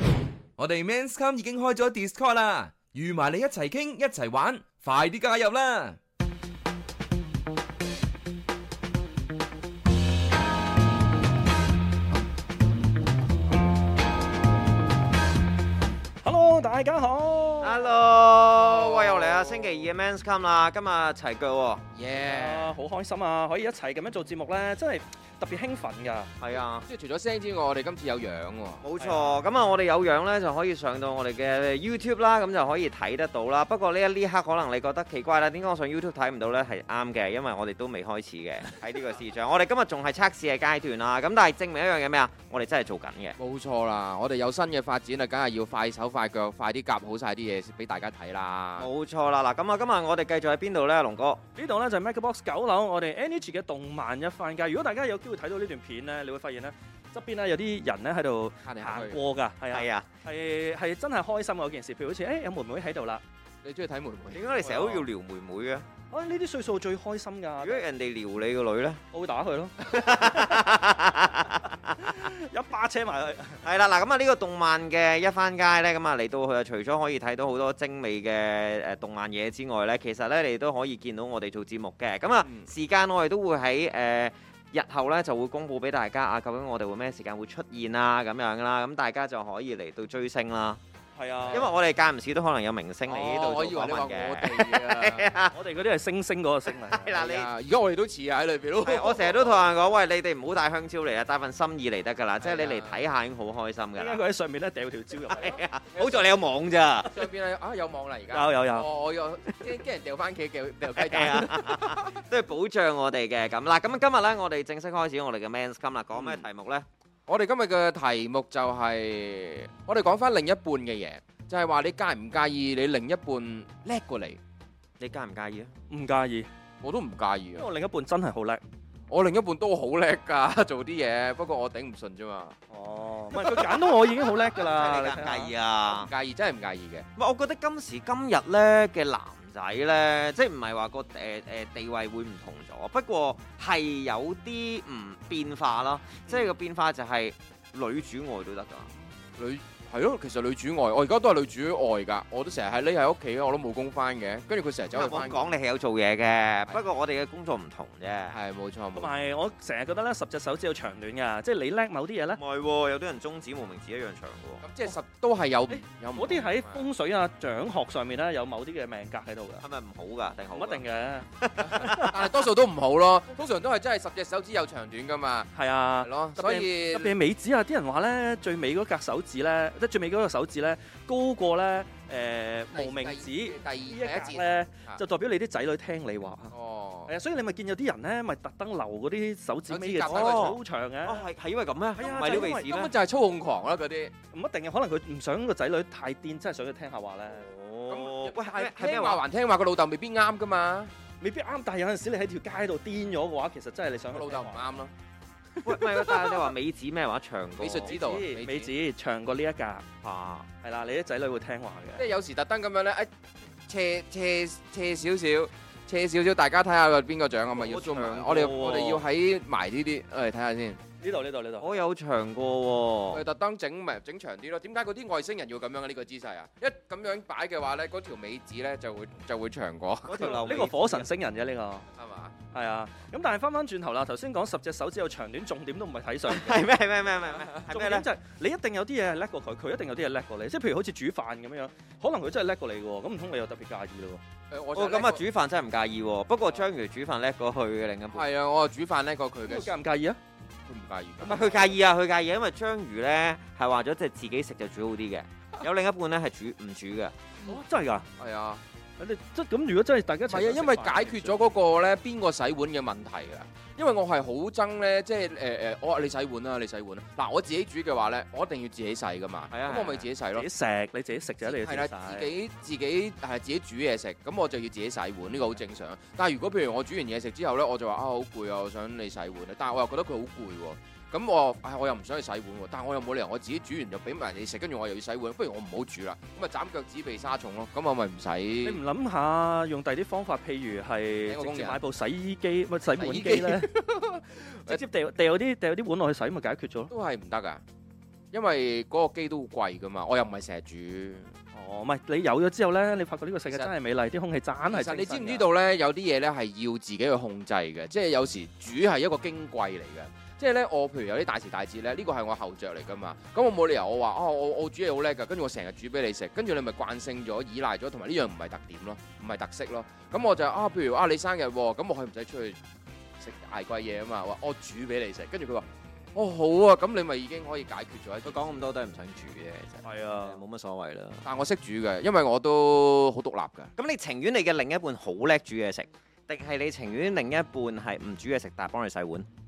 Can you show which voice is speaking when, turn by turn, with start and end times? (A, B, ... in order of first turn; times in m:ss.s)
0:00.6-0:06.0 A
0:16.2-0:18.0 B
0:17.6-0:21.8 C
0:18.5-0:19.9 D
0:22.0-0:22.8 D
0:22.2-0:26.3 B
0:26.4-0:26.9 C
0:26.5-0:28.8 D
0:28.8-0:43.4 C
0:29.0-0:29.4 B
0:43.4-0:48.9 D
0:48.8-0:51.4 C
0:51.6-1:03.2 B
0:58.6-0:59.2 D
0:59.7-1:00.1 C
1:03.6-1:04.4 D
1:04.3-1:05.9 C
1:04.6-1:05.1 B
1:06.1-1:07.8 B
1:07.6-1:09.0 C
1:09.1-1:10.8 B
1:09.8-1:12.2 C
1:12.0-1:13.6 B
1:13.6-1:30.8 C
1:22.4-1:22.7 D
1:31.2-1:31.7 B
1:31.5-1:35.6 C
1:33.1-1:35.3 D
1:35.5-1:37.2 B
1:36.7-1:37.5 C
1:37.2-1:39.6 D
1:38.8-1:44.2 C
1:42.4-1:43.0 D
1:44.0-1:45.6 B
1:45.2-1:47.2 C
1:46.0-1:46.3 D
1:47.0-1:52.2 D
1:48.3-1:48.9 B
1:50.9-1:56.9 C
1:56.1-1:56.5 D
1:57.3-2:04.4 D
2:05.0-2:05.7 C
2:05.9-2:06.5 B
2:06.8-2:07.7 D
2:07.6-2:08.6 B
2:09.1-2:12.6 D
2:12.7-2:15.5 B
2:13.4-2:13.8 C
2:14.4-2:16.1 C
2:15.9-2:17.0 D
2:17.2-2:28.9 C
2:26.3-2:26.5 D
2:29.4-2:35.6 D
2:34.9-2:38.4 C
2:38.3-2:39.1 D
2:39.0-2:42.4 B
2:42.4-2:44.6 C
2:44.6-2:46.9 D
2:45.7-2:49.6 B
2:49.6-2:50.8 C
2:50.5-2:51.3 B
2:51.4-2:52.2 C
2:51.6-2:55.5 D
2:51.8-2:52.2 B
2:55.6-3:06.6 B
2:56.0-2:57.2 D
3:02.7-3:05.0 D
3:06.5-3:07.1 D
3:07.1-3:11.3 B
3:09.7-3:12.9 C
3:10.0-3:10.6 D
3:12.0-3:12.7 B
3:12.3-3:14.1 D
3:14.3-3:17.5 B
3:17.3-3:19.2 C
3:17.9-3:20.9 D
3:21.2-3:24.6 B
3:24.1-3:24.9 D
3:25.6-3:28.0 C
3:25.6-3:26.5 B
3:27.6-3:28.7 D
3:27.9-3:29.8 B
3:30.0-3:30.5 C
3:30.6-3:32.0 B
3:32.0-3:33.1 D
3:33.7-3:40.8 D
3:37.6-3:38.5 C
3:37.8-3:39.0 B
3:41.0-3:41.9 B
3:41.6-3:43.2 C
3:43.1-3:50.2 D
3:50.1-3:51.1 C
3:50.1-3:51.9 B
3:51.9-3:52.4 D
3:52.5-3:56.7 B
3:56.3-3:58.1 C
3:57.5-4:04.2 B
4:04.5-4:05.3 D
4:04.7-4:08.2 C
4:08.1-4:09.7 D
4:09.4-4:10.2 B
4:10.7-4:11.8 D
4:11.2-4:17.2 C
4:17.5-4:18.1 B
4:18.2-4:18.6 D
4:19.0-4:21.4 B
4:20.3-4:30.5 D
4:29.5-4:30.1 C
4:30.4-4:32.3 B
4:31.4-4:48.8 D
4:48.6-4:53.7 B
4:51.3-4:51.8 D
4:53.0-4:54.8 D
4:54.7-4:56.9 B
4:56.9-4:57.6 D
4:58.3-5:01.3 D
5:01.5-5:05.5 B
5:04.7-5:22.6 D
5:23.2-5:28.6 D
5:28.2-5:31.2 C
5:29.8-5:30.4 B
5:31.2-5:33.7 D
5:33.8-5:39.3 C